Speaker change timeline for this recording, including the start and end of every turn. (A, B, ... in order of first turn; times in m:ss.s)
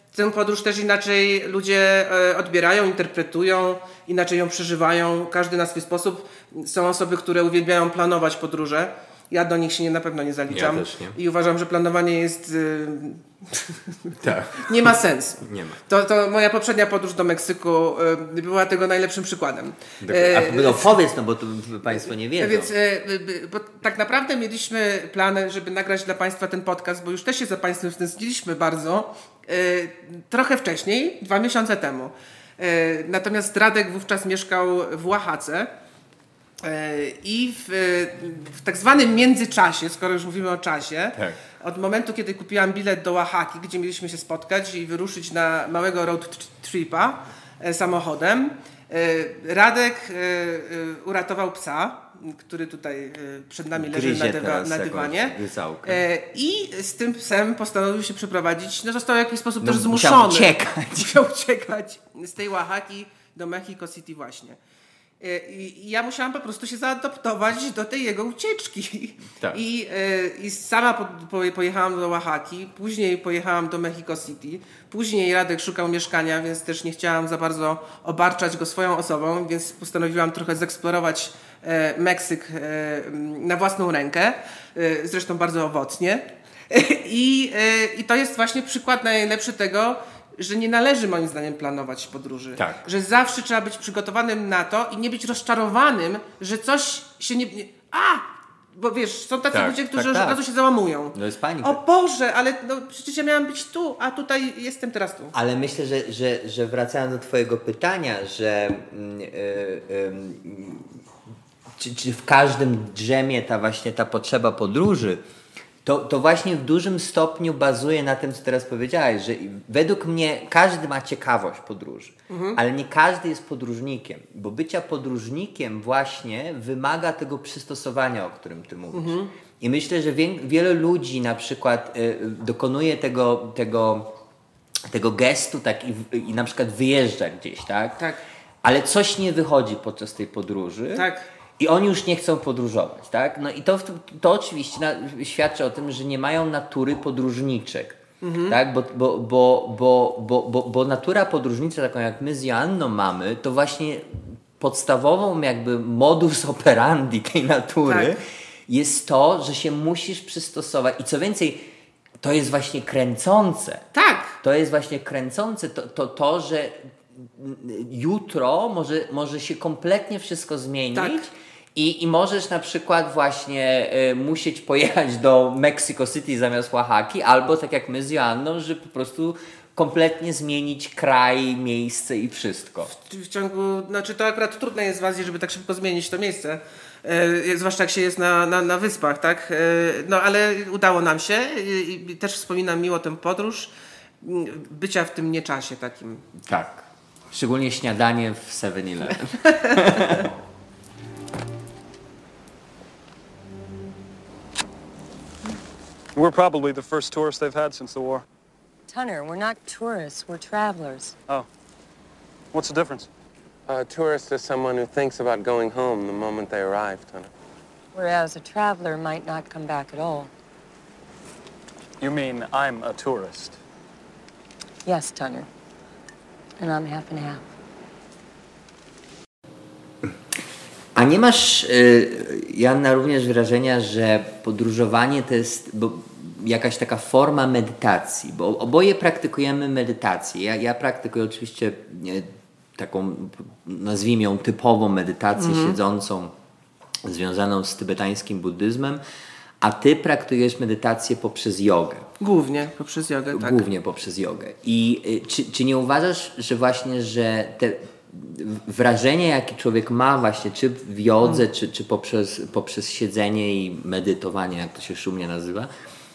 0:00.1-0:21.0 A
0:10.5-0:11.2 B
0:14.2-0:15.8 B
0:20.0-0:22.7 B
0:22.4-0:35.7 A
0:36.6-1:04.6 A
0:53.8-0:56.0 B
0:59.6-1:01.2 B
1:05.2-1:45.3 A
1:32.6-1:32.8 B
1:39.5-1:40.4 B
1:41.1-1:41.8 B
1:45.3-1:50.9 B
1:51.8-1:55.2 B
1:55.8-2:14.1 B
2:02.3-2:02.6 A
2:08.9-2:09.3 A
2:14.9-2:18.0 B
2:18.6-2:21.0 B
2:21.0-2:21.2 A
2:21.6-2:41.7 B
2:28.2-2:28.6 A
2:37.9-2:38.2 A
2:42.2-2:43.9 B
2:43.9-2:44.4 A
2:44.4-3:02.9 B
2:51.0-2:51.3 A
3:02.9-3:13.7 A
3:14.2-3:16.2 A
3:16.4-3:20.3 B
3:19.4-3:20.0 A
3:26.2-3:28.2 C
3:28.9-3:31.2 D
3:32.5-3:33.1 C
3:33.7-3:37.3 E
3:37.9-3:40.3 D
3:42.0-3:43.6 C
3:44.9-3:45.5 D
3:46.6-3:47.4 D
3:51.0-4:06.3 B
4:05.4-4:05.8 A
4:07.0-4:09.0 B
4:09.6-4:12.1 B
4:12.2-4:13.7 A
4:13.3-4:25.7 B